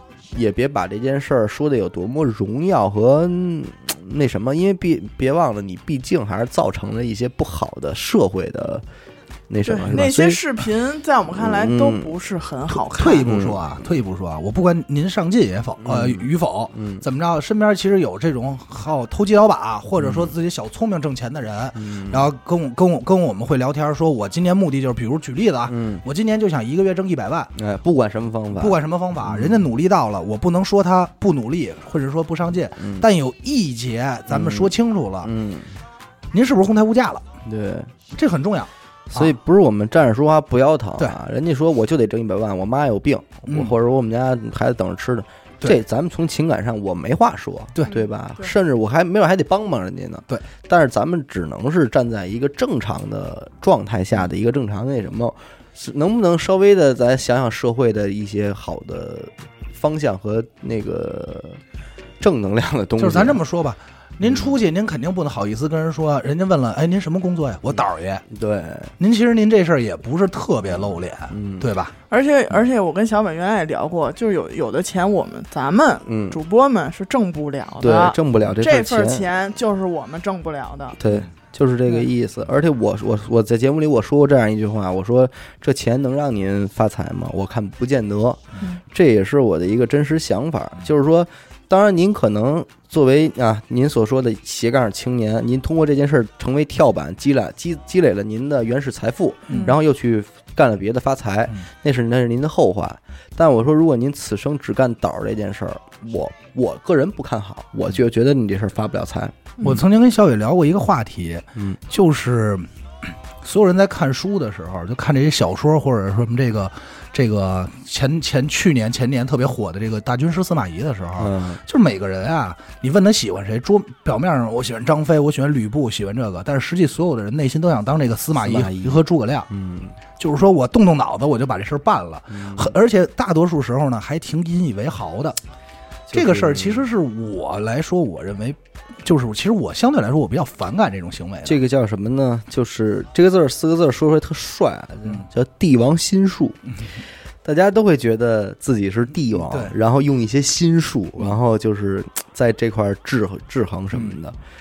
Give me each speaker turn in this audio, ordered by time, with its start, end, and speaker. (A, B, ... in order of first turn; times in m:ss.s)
0:00.3-0:08.8 A
0:09.5-0:10.6 A
0:09.6-0:13.4 B
0:11.3-0:12.1 A
0:12.9-0:27.5 C
0:13.2-0:13.7 A
0:15.8-0:17.0 A
0:20.0-0:20.3 A
0:21.7-0:22.2 A
0:25.7-0:26.0 A
0:27.6-0:29.7 A
0:28.6-0:35.3 C
0:32.8-0:33.1 A
0:34.3-0:34.7 A
0:35.2-0:35.8 A
0:36.3-0:37.2 C
0:37.4-0:37.9 A
0:38.1-0:39.3 C
0:39.1-1:01.6 A
0:43.5-0:43.7 C
0:47.9-0:48.5 B
1:02.2-1:03.4 A
1:03.0-1:08.2 C
1:04.2-1:04.5 A
1:08.3-1:08.9 A
1:09.0-1:11.9 C
1:11.3-1:11.7 A
1:12.1-1:21.0 B
1:16.1-1:16.4 A
1:17.8-1:19.3 A
1:21.0-1:49.5 A
1:39.5-1:39.8 B
1:49.6-2:09.5 C
2:01.2-2:01.6 A
2:08.4-2:09.9 A
2:10.2-2:15.4 C
2:12.3-2:12.8 A
2:16.1-2:16.9 A
2:16.1-2:21.6 C
2:21.4-2:26.6 A
2:27.4-2:34.4 A
2:29.3-2:29.8 C